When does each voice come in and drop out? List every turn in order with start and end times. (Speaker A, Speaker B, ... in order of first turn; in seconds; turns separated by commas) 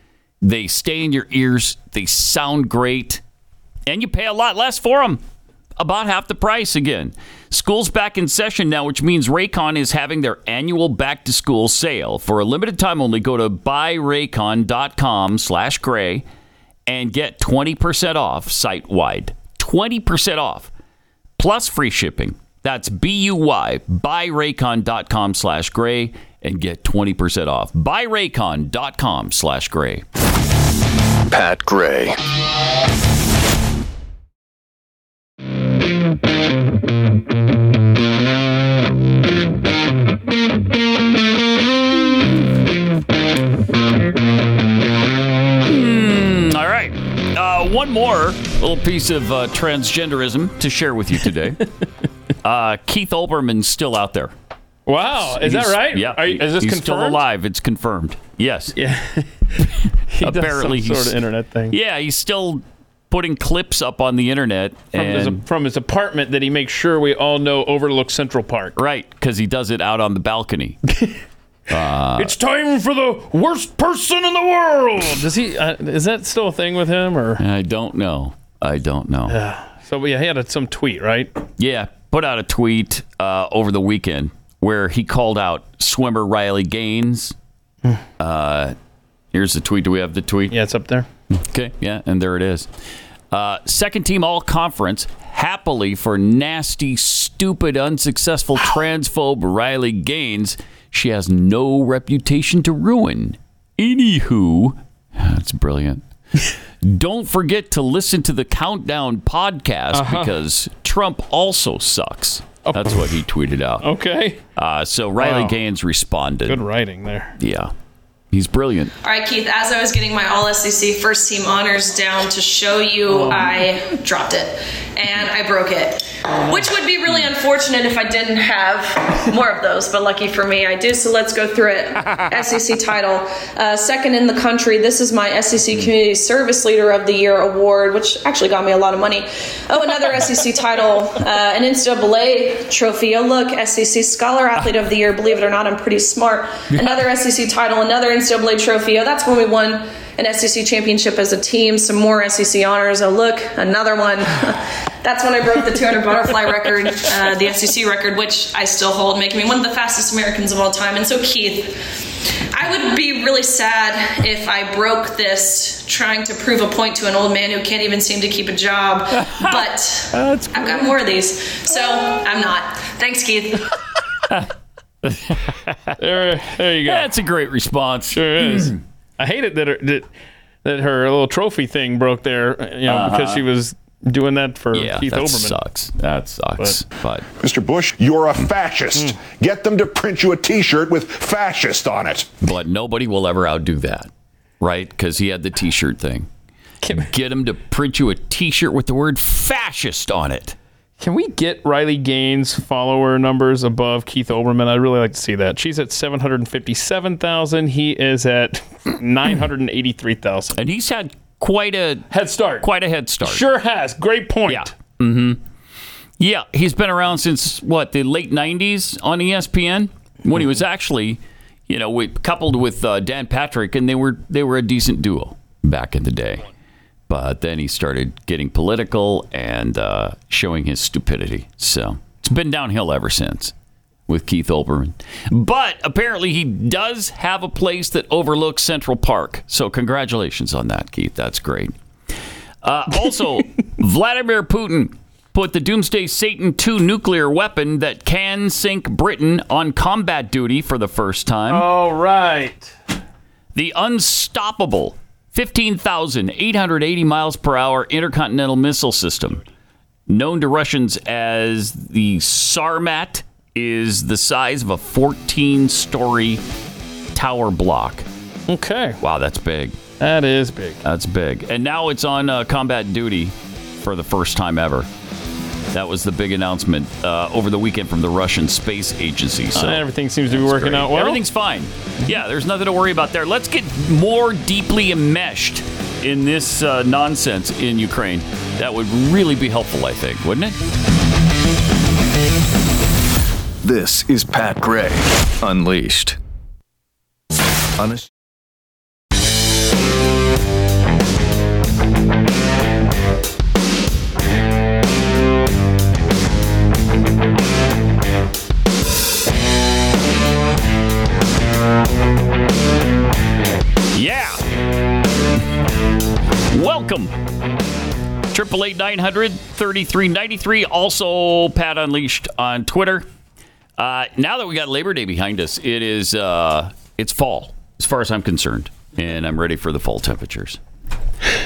Speaker A: 0.4-3.2, Speaker A: 3.9-5.2, Speaker A: 5.8-16.2, Speaker A: 16.9-20.7, Speaker A: 21.4-30.0, Speaker B: 31.3-32.2, Speaker A: 45.6-51.6, Speaker A: 52.4-54.3, Speaker C: 54.9-57.2, Speaker A: 55.2-58.7, Speaker C: 58.8-61.8, Speaker A: 60.2-61.1, Speaker A: 61.7-65.4, Speaker C: 64.9-68.8, Speaker A: 68.8-70.8, Speaker A: 71.7-72.3, Speaker C: 72.2-77.4, Speaker A: 77.4-79.4, Speaker C: 79.3-81.3, Speaker A: 81.6-87.3, Speaker A: 88.2-88.8, Speaker A: 89.3-90.6, Speaker C: 90.5-91.1, Speaker A: 91.3-92.7, Speaker A: 93.3-106.0, Speaker A: 106.8-113.9, Speaker C: 109.9-110.3, Speaker C: 112.7-113.0, Speaker C: 113.8-114.4, Speaker A: 114.6-116.6, Speaker C: 115.2-115.6, Speaker C: 116.5-117.3, Speaker A: 117.4-117.7, Speaker A: 118.3-118.9, Speaker D: 119.0-161.8, Speaker C: 123.1-123.6, Speaker D: 162.5-173.6, Speaker A: 170.1-170.9, Speaker A: 175.1-175.4, Speaker C: 176.0-177.1, Speaker A: 176.9-178.8, Speaker C: 178.1-180.1, Speaker C: 180.7-185.6, Speaker A: 182.9-183.4, Speaker A: 184.7-187.3, Speaker E: 187.4-192.3, Speaker A: 192.4-194.1, Speaker A: 194.6-196.3, Speaker C: 196.8-197.1, Speaker A: 196.9-200.6, Speaker C: 201.0-210.6, Speaker A: 210.6-212.1, Speaker C: 212.1-212.7, Speaker A: 212.6-213.4, Speaker C: 213.2-214.7, Speaker A: 214.5-215.4, Speaker A: 216.2-226.4, Speaker A: 227.1-233.5, Speaker A: 234.1-241.7, Speaker A: 242.6-251.7, Speaker C: 251.5-252.7, Speaker A: 253.6-259.4, Speaker A: 260.1-266.4, Speaker A: 267.1-268.1, Speaker C: 268.5-269.0, Speaker A: 269.0-269.8, Speaker C: 270.0-270.8, Speaker A: 270.8-274.9, Speaker A: 275.7-290.6, Speaker C: 279.6-281.2, Speaker B: 293.6-296.2, Speaker B: 297.8-298.1, Speaker A: 313.9-314.4, Speaker A: 316.5-317.1, Speaker A: 318.3-323.1, Speaker A: 323.8-330.6